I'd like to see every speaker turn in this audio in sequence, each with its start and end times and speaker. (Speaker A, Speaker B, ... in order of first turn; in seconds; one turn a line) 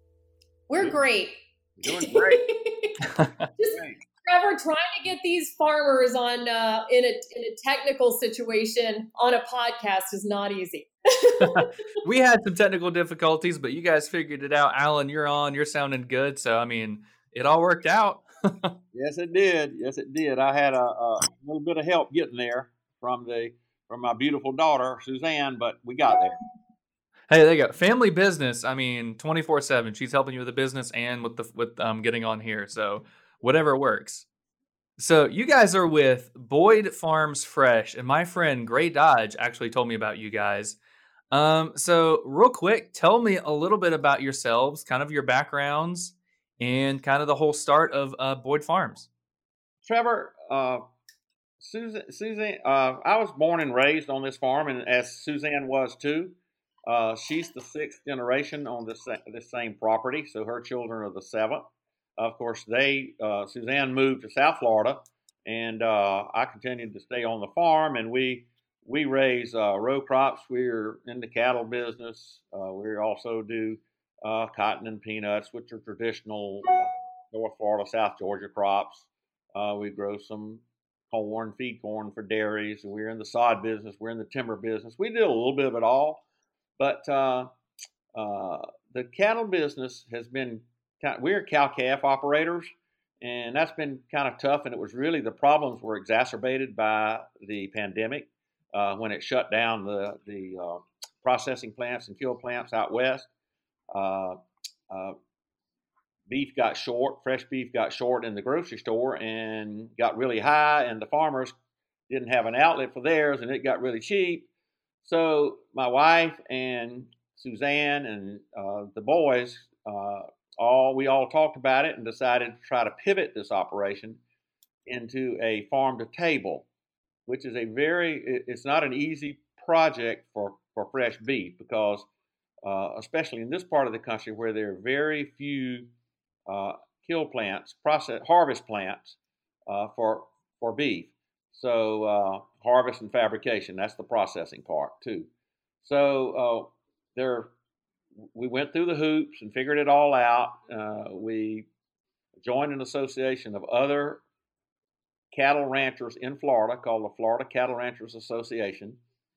Speaker A: 0.7-3.0
Speaker B: 1.8-2.4
Speaker A: 3.6-11.7
Speaker B: 3.7-4.0
Speaker C: 11.4-18.8
Speaker B: 18.9-26.4
Speaker C: 27.3-34.3
Speaker C: 35.0-40.8
Speaker C: 41.3-49.1
Speaker B: 49.8-50.8
Speaker B: 51.6-56.3
Speaker B: 56.9-61.6
Speaker B: 62.2-86.2
Speaker B: 86.8-87.5
Speaker B: 88.1-103.3
Speaker B: 103.9-104.4
Speaker B: 104.9-105.2
Speaker B: 106.3-111.5
Speaker B: 112.1-114.5
Speaker B: 115.0-124.2
Speaker B: 124.9-126.7
Speaker B: 127.3-132.1
Speaker B: 132.6-135.9
Speaker B: 136.5-139.2
Speaker B: 139.7-145.3
Speaker B: 145.8-147.5
Speaker B: 148.3-151.7
Speaker B: 152.4-154.2
Speaker B: 155.3-159.0